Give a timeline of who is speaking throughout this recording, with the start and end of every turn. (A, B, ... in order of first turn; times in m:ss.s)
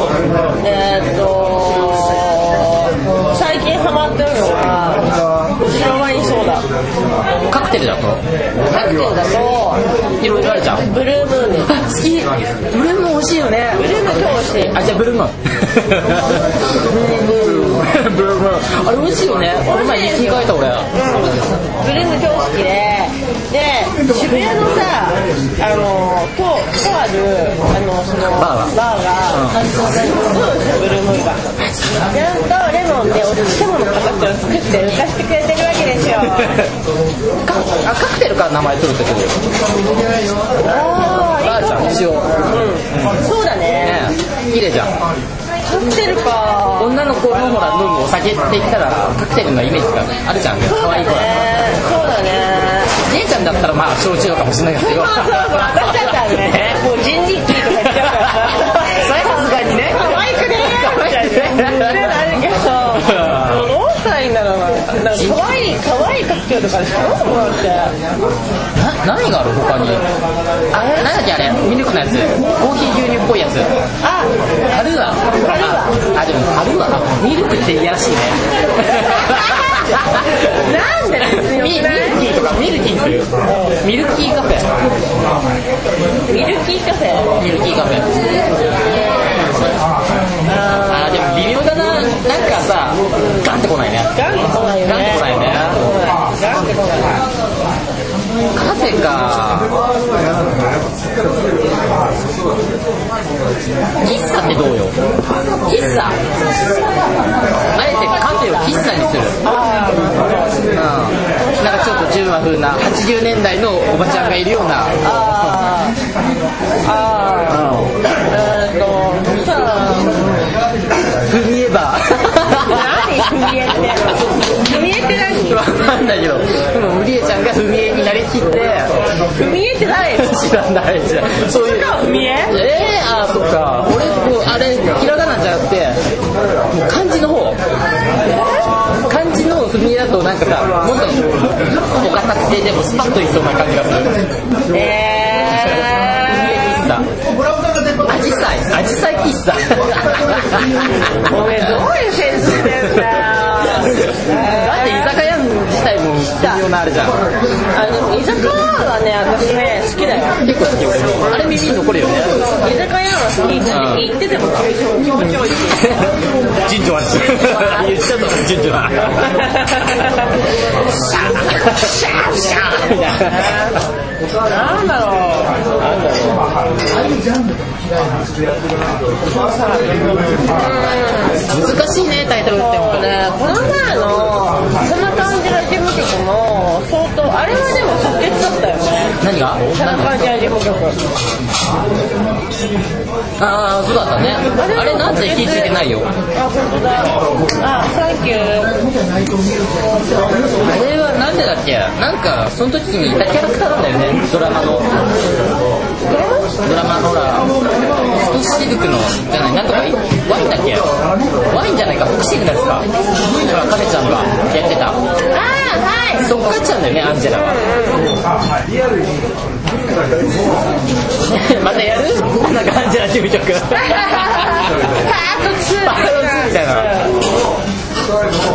0:00.6-0:06.7 A
0:07.5-0:08.2 B
0:08.6-0:11.7 A
0:10.2-0:10.9 B
0:11.7-0:16.5 B
0:13.8-0:14.8 A
0:16.8-0:17.7 A
0:17.1-0:20.9 B
0:19.6-0:31.4 A
0:28.3-0:28.7 B
0:29.3-0:29.6 B
0:31.7-0:31.9 B
0:32.1-0:36.7 A
0:36.3-0:36.6 B
0:37.4-0:39.4 B
0:40.6-0:44.0 A
0:41.2-0:42.3 B
0:42.9-0:43.2 B
0:43.8-0:45.0 B
0:45.6-0:47.0 A
0:46.8-0:51.4 B
0:50.6-0:52.9 A
0:53.1-0:56.8 B
0:54.8-1:07.9 A
0:57.5-1:02.2 B
1:02.9-1:03.7 B
1:05.1-1:05.6 B
1:08.7-1:10.1 B
1:10.7-1:13.7 B
1:10.8-1:11.1 A
1:14.0-1:16.0 A
1:14.7-1:20.4 B
1:19.1-1:22.2 A
1:21.2-1:23.3 B
1:23.4-1:23.8 A
1:23.8-1:24.7 B
1:26.3-1:27.3 A
1:27.4-1:28.2 B
1:28.9-1:29.4 A
1:30.4-1:31.6 A
1:30.8-1:34.1 B
1:33.2-1:33.4 A
1:34.1-1:37.2 A
1:34.8-1:35.9 B
1:38.5-1:39.8 B
1:44.0-1:45.0 B
1:45.6-1:46.2 B
1:47.7-1:49.4 B
1:47.8-1:48.6 A
1:49.4-1:50.7 A
1:50.7-1:55.6 B
1:51.4-1:52.1 A
1:55.0-1:55.9 A
1:56.8-2:00.3 A
1:57.5-1:57.9 B
2:01.3-2:03.6 B
2:02.6-2:05.6 A
2:05.4-2:08.9 B
2:09.3-2:10.5 A
2:10.0-2:11.9 B
2:11.5-2:12.6 A
2:12.5-2:16.0 B
2:16.7-2:17.6 B
2:18.2-2:18.8 A
2:19.0-2:24.1 B
2:24.7-2:26.7 A
2:25.3-2:27.1 B
2:28.0-2:31.8 B
2:31.3-2:35.2 A
2:32.7-2:33.2 B
2:33.8-2:37.3 B
2:36.4-2:36.6 A
2:37.7-2:40.4 A
2:40.4-2:42.4 B
2:42.4-2:46.1 A
2:43.7-2:44.1 B
2:45.4-2:50.1 B
2:47.4-2:47.9 A
2:49.2-2:50.4 A
2:50.7-2:53.8 B
2:53.2-2:53.8 A
2:54.5-2:56.7 A
2:59.3-3:01.4 A
3:01.5-3:03.1 B
3:02.5-3:09.2 A
3:09.2-3:10.2 B
3:09.7-3:11.0 A
3:13.4-3:16.1 B
3:14.5-3:15.8 A
3:16.3-3:18.8 A
3:20.6-3:25.0 B
3:26.1-3:26.6 A
3:26.6-3:30.9 B
3:31.5-3:35.0 B
3:35.3-3:36.2 A
3:36.2-3:37.6 B
3:37.4-3:38.1 A
3:41.2-3:44.9 B
3:43.8-3:47.2 A
3:45.8-3:47.0 B